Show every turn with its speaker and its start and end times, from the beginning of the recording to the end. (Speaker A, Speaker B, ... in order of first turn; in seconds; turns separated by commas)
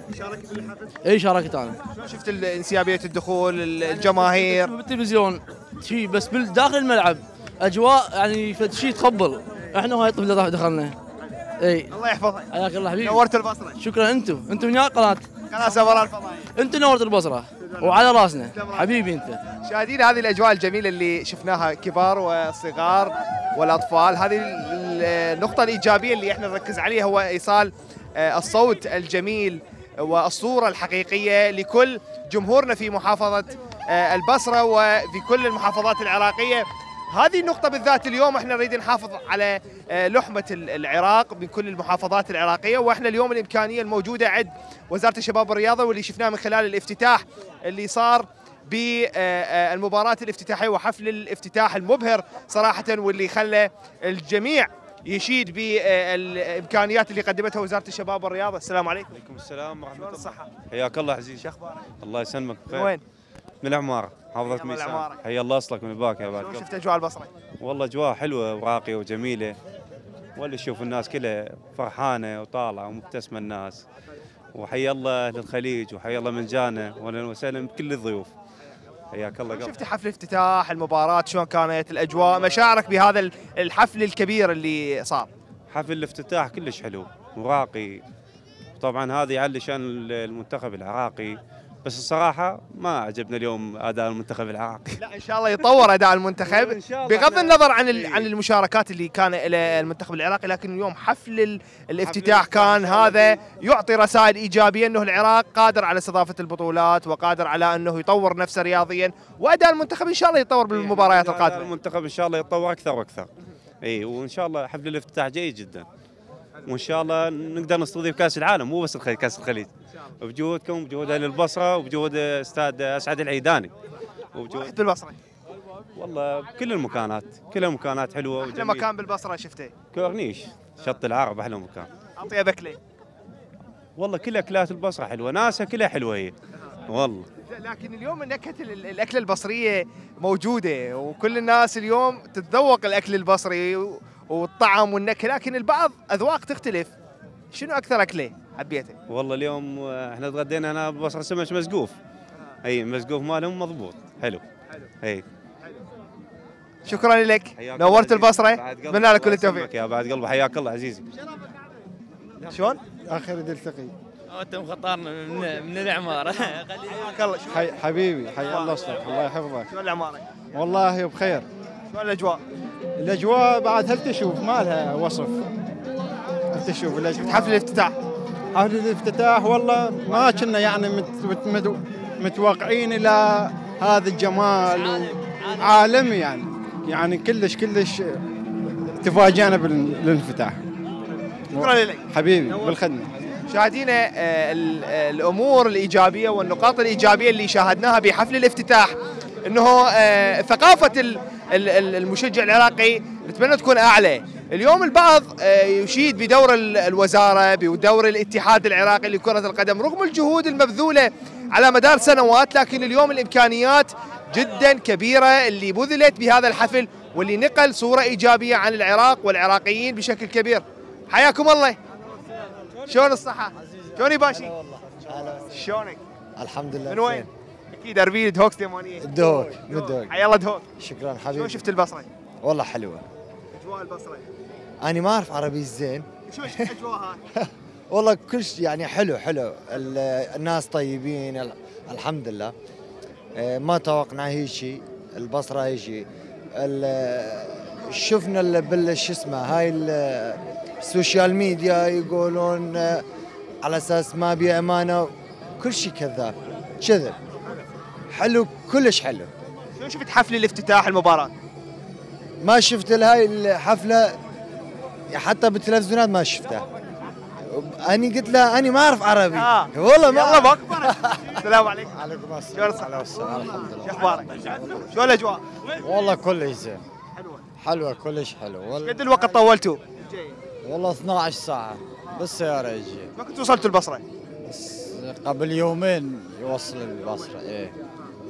Speaker A: 0.1-0.8, Speaker B: 1.1-1.8, Speaker A: 1.9-4.7, Speaker B: 4.0-10.9, Speaker B: 11.6-11.9, Speaker A: 11.9-12.5, Speaker B: 12.5-13.2, Speaker A: 13.0-13.8, Speaker B: 13.8-15.2, Speaker A: 15.5-16.4, Speaker B: 16.6-19.4, Speaker A: 18.5-18.9, Speaker A: 19.6-59.1, Speaker C: 59.1-61.5, Speaker A: 59.9-60.5, Speaker A: 61.4-61.8, Speaker C: 62.0-62.9, Speaker A: 62.7-63.0, Speaker C: 63.6-66.7, Speaker A: 64.4-65.2, Speaker A: 66.3-67.3, Speaker C: 67.6-69.5, Speaker C: 70.3-73.8, Speaker C: 74.5-78.3, Speaker C: 79.1-79.8, Speaker A: 79.5-85.3, Speaker C: 85.7-88.0, Speaker C: 88.8-95.0, Speaker A: 95.0-111.7, Speaker C: 96.7-98.2, Speaker C: 110.7-113.3, Speaker C: 113.8-115.8, Speaker C: 116.7-119.7, Speaker C: 120.2-123.7, Speaker C: 124.3-124.7, Speaker A: 124.5-125.2, Speaker C: 126.0-128.9, Speaker A: 128.4-129.7, Speaker C: 129.9-131.9, Speaker A: 132.2-132.8, Speaker C: 134.0-136.3, Speaker C: 136.9-137.3, Speaker A: 137.5-146.9, Speaker A: 147.5-148.9, Speaker C: 149.1-151.9, Speaker C: 152.6-154.4, Speaker A: 156.8-159.7, Speaker C: 157.6-161.0, Speaker A: 162.5-162.8, Speaker D: 164.3-166.6, Speaker A: 167.0-167.7, Speaker A: 168.4-168.8, Speaker A: 169.7-170.2, Speaker A: 171.9-172.4, Speaker E: 174.1-174.8, Speaker A: 177.2-178.0, Speaker E: 181.2-181.5, Speaker E: 186.9-187.7, Speaker E: 189.3-190.3, Speaker A: 191.5-192.8, Speaker A: 193.5-221.8, Speaker A: 222.9-224.5, Speaker F: 224.3-225.5, Speaker A: 225.5-226.0, Speaker F: 226.3-227.3, Speaker A: 226.9-230.6, Speaker F: 229.0-230.1, Speaker F: 230.8-231.6, Speaker A: 231.3-232.1, Speaker F: 232.4-233.0, Speaker A: 233.5-234.2, Speaker F: 234.8-236.1, Speaker A: 236.3-237.2, Speaker F: 237.4-242.5, Speaker F: 243.3-253.0, Speaker F: 253.6-257.1, Speaker F: 258.1-259.3, Speaker A: 259.8-261.3, Speaker F: 262.4-264.1, Speaker F: 265.1-266.6, Speaker F: 267.5-271.4, Speaker A: 269.3-271.9, Speaker F: 271.9-274.8, Speaker A: 272.5-275.4, Speaker F: 275.8-276.8, Speaker A: 277.1-277.4, Speaker F: 277.6-279.0, Speaker A: 278.8-280.4, Speaker F: 280.6-283.1, Speaker A: 283.2-284.0, Speaker F: 284.4-287.7